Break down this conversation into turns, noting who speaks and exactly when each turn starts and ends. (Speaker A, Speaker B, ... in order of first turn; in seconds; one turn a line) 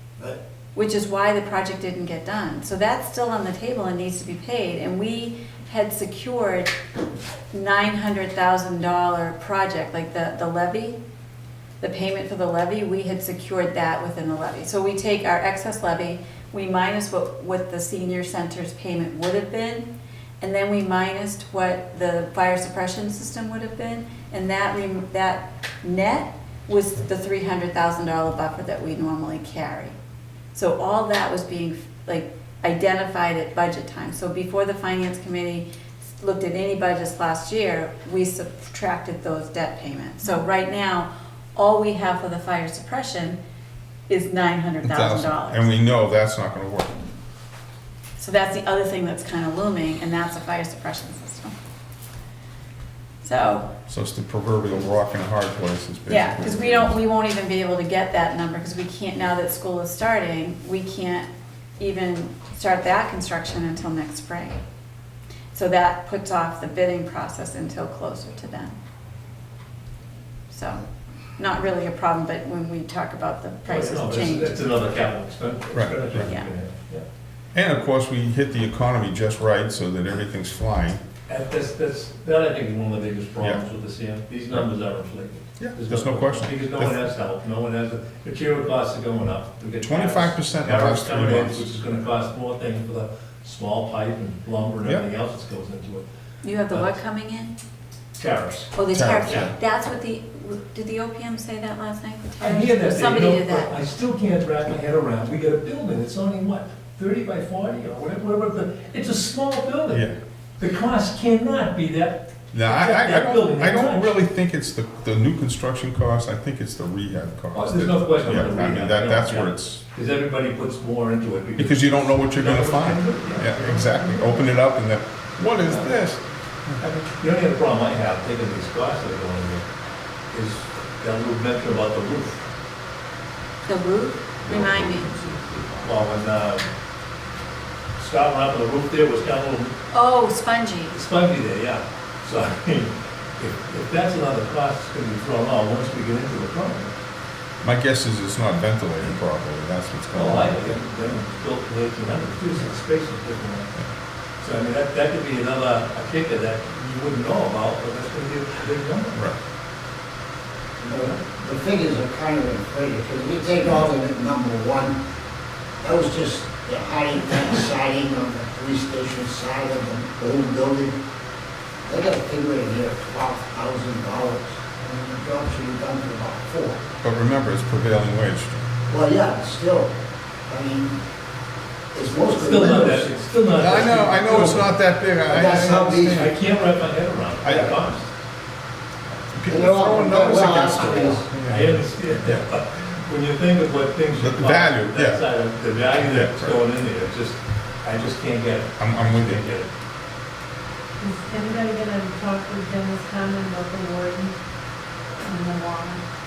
Speaker A: 0.7-6.7
Speaker A: 7.5-11.0
Speaker A: 11.8-19.9
Speaker A: 20.4-29.9
Speaker A: 30.5-43.4
Speaker A: 44.1-45.7
Speaker B: 44.8-47.0
Speaker A: 48.2-51.5
Speaker A: 53.2-53.7
Speaker B: 53.9-57.0
Speaker A: 56.1-64.6
Speaker A: 65.5-68.8
Speaker A: 70.5-70.8
Speaker A: 71.4-74.6
Speaker C: 73.7-77.0
Speaker B: 75.7-76.3
Speaker A: 76.2-76.5
Speaker B: 77.5-81.0
Speaker C: 81.3-96.0
Speaker B: 85.6-87.1
Speaker B: 89.8-91.7
Speaker A: 96.4-97.5
Speaker C: 98.2-99.5
Speaker A: 98.7-103.7
Speaker B: 98.9-99.5
Speaker C: 102.4-110.0
Speaker B: 109.9-110.2
Speaker C: 110.6-114.1
Speaker B: 112.5-119.8
Speaker C: 117.5-124.5
Speaker B: 121.5-126.8
Speaker C: 125.6-126.0
Speaker C: 126.8-129.6
Speaker C: 130.3-132.4
Speaker A: 133.7-135.1
Speaker C: 135.8-136.7
Speaker C: 138.0-139.7
Speaker A: 139.9-141.0
Speaker C: 140.9-146.9
Speaker B: 147.6-150.8
Speaker C: 150.1-153.8
Speaker C: 154.4-159.2
Speaker D: 160.8-165.0
Speaker C: 160.9-161.2
Speaker D: 165.8-171.0
Speaker D: 171.8-176.8
Speaker B: 177.0-178.7
Speaker D: 178.9-181.0
Speaker D: 181.9-183.1
Speaker C: 182.2-184.7
Speaker B: 183.5-186.3
Speaker D: 185.3-186.3
Speaker C: 186.1-188.1
Speaker B: 187.4-187.8
Speaker B: 189.2-192.4
Speaker D: 189.5-191.3
Speaker C: 190.8-199.7
Speaker B: 194.1-195.2
Speaker B: 196.0-196.7
Speaker B: 198.8-199.4
Speaker E: 201.0-204.3
Speaker E: 205.2-206.0